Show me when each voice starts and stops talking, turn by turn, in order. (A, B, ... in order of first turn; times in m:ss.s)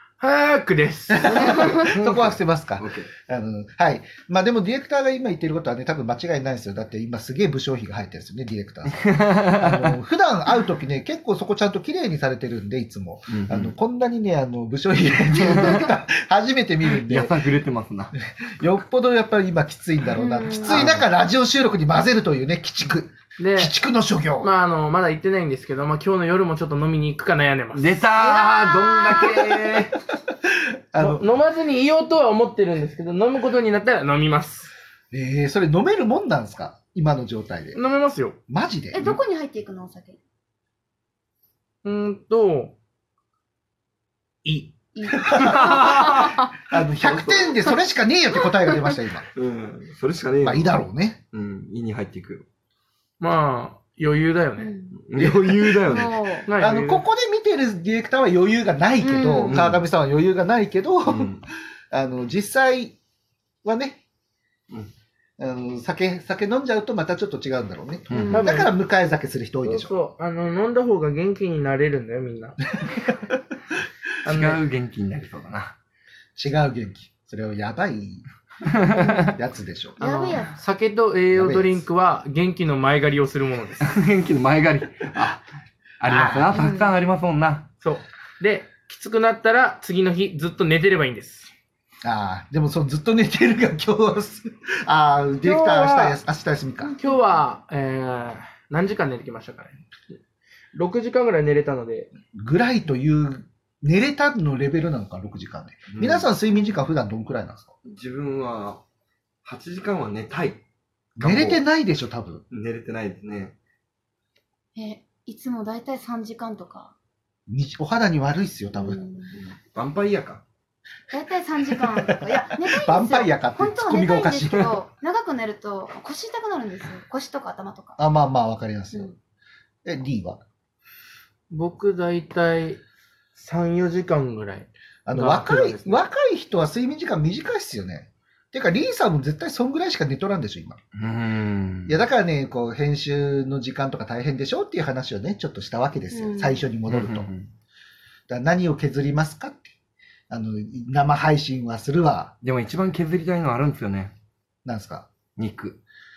0:00.2-0:01.9 A
0:01.1-0:17.4 B
0:01.7-0:03.1 C
0:08.9-0:09.9 C
0:13.3-0:13.8 C
0:15.3-0:15.9 C
0:17.0-0:18.1 C
0:18.2-0:24.5 B
0:20.2-0:20.8 D
0:20.7-0:21.1 C
0:23.4-0:23.8 A
0:24.4-0:28.0 A
0:27.7-0:30.0 C
0:28.2-0:29.6 D
0:30.9-0:31.2 B
0:31.0-0:34.8 A
0:35.1-0:37.8 B
0:37.7-0:38.4 A
0:38.5-0:39.2 B
0:38.9-0:40.2 D
0:41.8-0:42.7 A
0:44.4-0:46.4 A
0:45.0-0:46.5 D
0:45.3-0:46.1 B
0:46.7-0:49.3 B
0:47.0-0:47.6 C
0:49.4-0:50.8 C
0:50.4-0:51.2 B
0:51.3-0:52.5 C
0:53.2-0:54.7 A
0:54.6-0:55.0 D
0:54.9-0:56.4 C
0:55.2-0:56.0 B
0:55.9-0:56.5 D
0:56.5-0:57.0 A
0:56.6-1:03.0 B
0:59.0-0:59.6 D
0:59.4-0:59.8 C
1:01.1-1:01.4 C
1:03.6-1:04.0 B
1:05.4-1:10.0 B
1:08.1-1:08.5 C
1:08.1-1:08.5 D
1:08.3-1:08.7 A
1:09.6-1:12.6 A
1:12.8-1:13.3 B
1:14.2-1:14.6 A
1:14.3-1:15.7 C
1:16.4-1:18.3 B
1:18.7-1:19.4 C
1:19.2-1:20.0 B
1:20.0-1:23.9 A
1:20.0-1:20.5 D
1:21.3-1:21.8 B
1:23.8-1:25.4 C
1:26.0-1:27.7 C
1:26.0-1:26.6 B
1:26.5-1:26.9 D
1:27.8-1:31.5 A
1:32.0-1:36.9 B
1:35.4-1:36.2 A
1:36.8-1:39.8 A
1:40.7-1:42.1 A
1:42.3-1:47.7 B
1:45.9-1:46.3 C
1:47.8-1:48.8 C
1:49.4-1:50.6 C
1:51.2-1:51.6 C
1:51.2-1:52.4 B
1:52.5-1:53.5 C
1:54.8-1:56.9 D
1:57.5-1:59.0 B
1:58.7-1:59.3 D
1:59.3-2:00.4 C
2:01.1-2:08.0 D
2:01.7-2:04.7 B
2:08.0-2:09.1 B
2:09.8-2:10.4 B
2:11.5-2:12.8 A
2:13.4-2:16.0 A
2:15.1-2:20.8 B
2:21.0-2:22.0 C
2:21.9-2:27.3 B
2:26.1-2:26.6 D
2:26.9-2:27.5 C
2:28.3-2:29.7 B
2:30.3-2:32.3 B
2:32.4-2:34.1 C
2:34.6-2:35.1 B
2:35.4-2:35.8 C